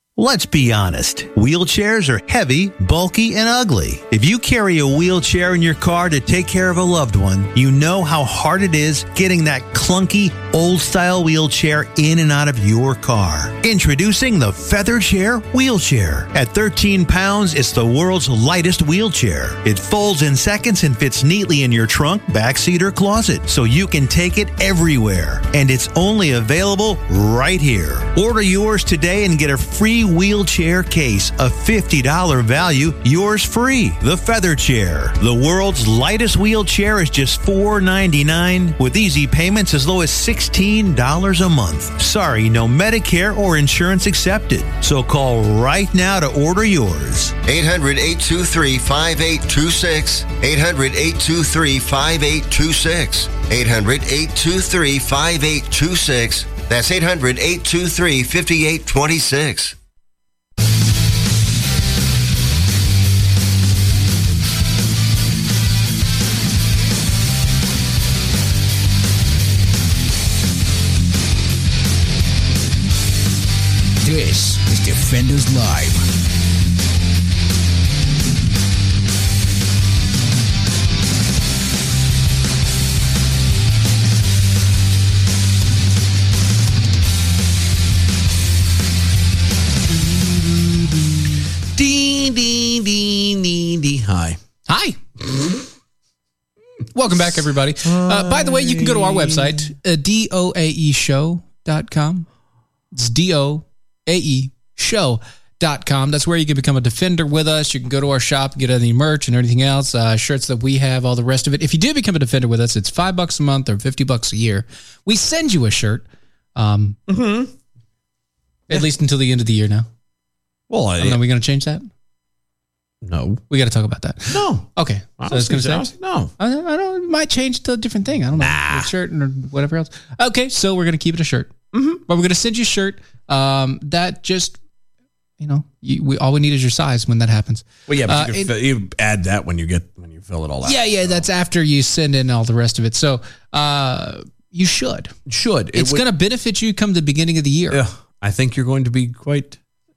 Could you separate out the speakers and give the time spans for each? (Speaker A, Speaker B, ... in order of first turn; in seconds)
Speaker A: 0.2-47.3
Speaker B: 47.4-59.7
Speaker C: 74.0-76.0
Speaker D: 89.9-91.2, 91.7-94.4, 97.8-99.7, 117.1-117.5, 120.7-121.2, 123.0-123.4, 124.3-124.7, 125.2-126.3, 128.4-128.9, 131.7-132.0, 137.9-141.2, 145.3-146.0, 147.7-149.6
Speaker E: 94.7-95.0, 96.9-102.3, 102.9-117.0, 118.7-119.9, 121.0-121.9, 123.5-125.9, 126.4-131.5, 132.1-134.6, 135.4-138.5, 140.6-145.1, 145.7-147.8